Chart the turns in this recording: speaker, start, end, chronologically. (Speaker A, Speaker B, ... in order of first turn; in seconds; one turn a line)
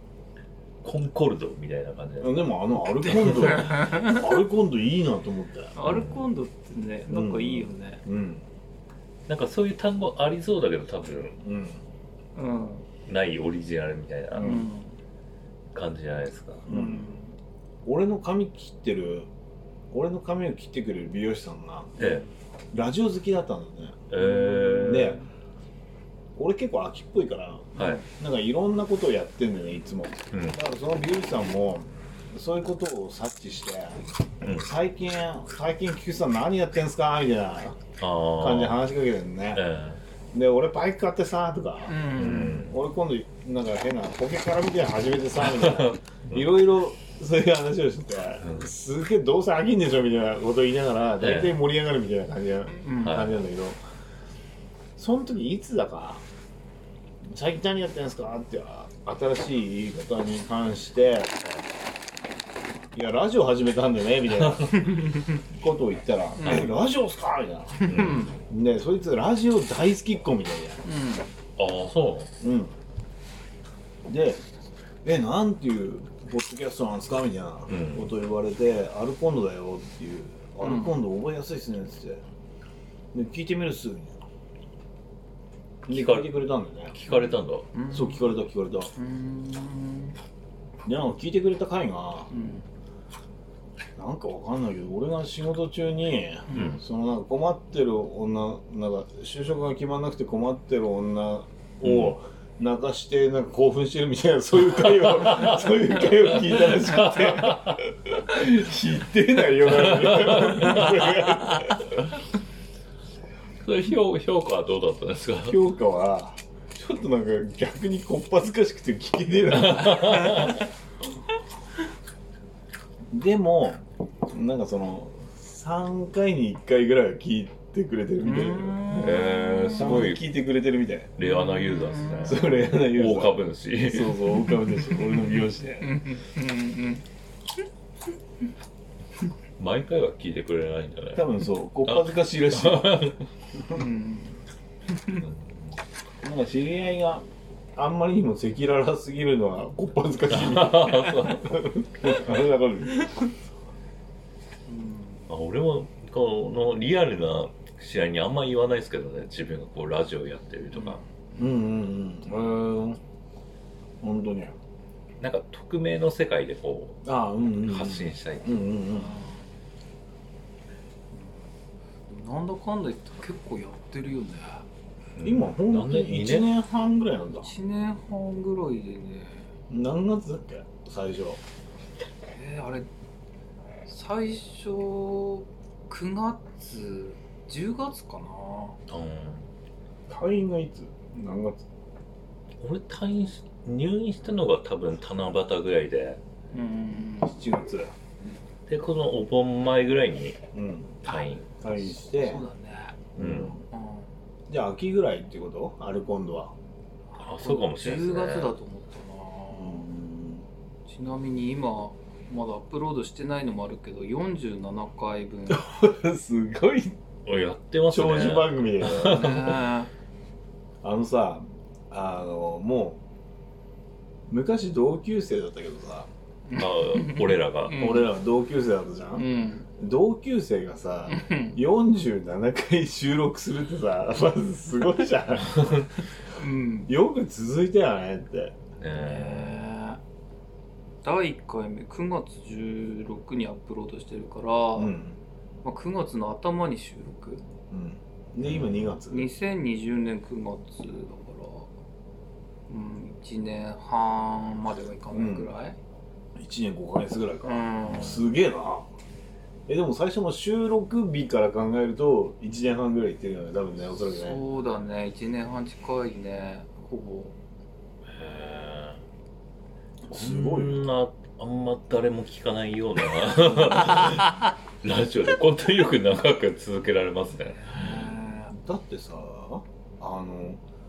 Speaker A: 0.8-2.5
Speaker B: 2.2-5.8
Speaker C: 3.0-4.2
Speaker A: 3.0-3.7
Speaker C: 5.8-8.0
Speaker A: 5.8-6.2
Speaker B: 7.1-8.5
Speaker A: 9.3-11.4
Speaker B: 11.4-11.8
Speaker C: 12.3-12.9
Speaker A: 13.1-14.6
Speaker B: 14.3-14.7
Speaker C: 14.4-14.9
Speaker A: 15.7-16.7
Speaker B: 16.7-17.1
Speaker C: 16.7-17.3
Speaker B: 17.9-19.3
Speaker B: 19.9-22.0
Speaker A: 22.0-22.2
Speaker C: 22.0-22.3
Speaker B: 22.7-24.0
Speaker A: 24.1-25.2
Speaker C: 24.2-25.2
Speaker B: 24.9-25.2
Speaker B: 26.4-39.6
Speaker A: 27.8-28.0
Speaker C: 27.8-28.0
Speaker A: 30.3-30.6
Speaker A: 34.4-34.7
Speaker A: 38.0-38.8
Speaker A: 39.5-40.0
Speaker B: 40.3-42.0
Speaker C: 41.9-42.6
Speaker A: 42.1-42.8
Speaker B: 42.6-53.8
Speaker A: 45.4-46.5
Speaker A: 51.2-51.6
Speaker C: 52.8-53.3
Speaker A: 53.0-53.4
Speaker B: 55.0-56.2
Speaker B: 57.3-61.5
Speaker B: 62.9-70.8
Speaker A: 64.4-64.7
Speaker C: 64.8-65.3
Speaker C: 66.4-66.7
Speaker C: 67.8-68.3
Speaker A: 67.8-68.4
Speaker C: 70.8-71.3
Speaker A: 71.6-72.3
Speaker B: 72.4-72.8
Speaker B: 74.1-74.4
Speaker B: 75.0-82.2
Speaker A: 77.7-78.2
Speaker C: 80.6-81.0
Speaker B: 83.1-84.2
Speaker B: 85.9-87.0
Speaker A: 85.9-87.7
Speaker C: 87.1-88.3
Speaker B: 87.9-88.9
Speaker C: 89.0-90.2
Speaker B: 90.8-92.3
Speaker C: 92.3-92.6
Speaker B: 94.0-112.0
Speaker C: 96.5-96.8
Speaker A: 96.5-96.8
Speaker A: 101.8-102.2
Speaker A: 104.8-107.8
Speaker A: 109.6-111.7
Speaker A: 113.6-115.6
Speaker B: 115.4-120.6
Speaker A: 119.5-120.6
Speaker C: 120.2-120.5
Speaker B: 123.1-129.2
Speaker C: 128.2-130.1
Speaker A: 128.9-130.2
Speaker B: 129.7-131.1
Speaker A: 131.2-134.3
Speaker C: 131.2-132.4
Speaker B: 132.2-136.0
Speaker C: 135.8-137.0
Speaker A: 139.6-141.3
Speaker B: 141.2-143.8
Speaker A: 141.8-143.3
Speaker C: 143.7-144.4
Speaker A: 145.1-145.8
Speaker B: 146.2-153.2
Speaker A: 150.3-151.6
Speaker C: 154.7-155.2
Speaker A: 155.3-161.0
Speaker C: 160.7-161.0
Speaker B: 161.4-163.0
Speaker B: 164.0-164.6
Speaker A: 165.2-167.0
Speaker B: 167.1-169.2
Speaker A: 167.6-168.7
Speaker C: 168.9-169.4
Speaker C: 172.1-174.7
Speaker A: 175.2-176.5
Speaker B: 175.2-177.5
Speaker C: 177.4-179.5
Speaker B: 179.7-181.4
Speaker C: 182.3-182.9
Speaker C: 183.9-188.8
Speaker A: 188.9-189.5
Speaker B: 190.1-191.6
Speaker A: 192.6-196.2
Speaker C: 196.5-197.3
Speaker B: 197.2-197.9
Speaker A: 198.7-200.4
Speaker B: 200.5-201.0
Speaker A: 201.0-201.5
Speaker C: 201.1-203.0
Speaker B: 201.6-202.4
Speaker B: 203.2-203.6
Speaker A: 203.2-203.6
Speaker C: 203.7-204.1
Speaker B: 204.5-206.6
Speaker C: 207.1-209.9
Speaker A: 207.2-208.5
Speaker B: 209.5-210.5
Speaker C: 210.9-215.7
Speaker B: 215.5-217.0
Speaker A: 217.3-219.7
Speaker B: 217.9-219.4
Speaker C: 219.0-219.9
Speaker B: 220.8-223.0
Speaker B: 224.3-226.1
Speaker C: 226.5-228.1
Speaker A: 226.5-227.9
Speaker B: 227.7-229.3
Speaker C: 229.2-229.7
Speaker B: 229.8-235.9
Speaker C: 231.1-231.6
Speaker C: 236.4-236.9
Speaker B: 236.9-238.6
Speaker A: 238.8-239.7
Speaker C: 238.9-240.0
Speaker C: 241.0-244.9
Speaker B: 244.8-245.2
Speaker C: 245.6-247.4
Speaker B: 247.7-249.3
Speaker A: 248.4-248.9
Speaker C: 249.1-251.7
Speaker C: 252.7-255.8
Speaker B: 255.1-255.5
Speaker B: 256.4-258.9
Speaker C: 257.4-258.3
Speaker B: 259.7-264.4
Speaker C: 264.0-267.4
Speaker A: 268.1-269.0
Speaker B: 270.1-270.8
Speaker A: 270.1-278.0
Speaker C: 277.6-278.5
Speaker B: 278.5-280.6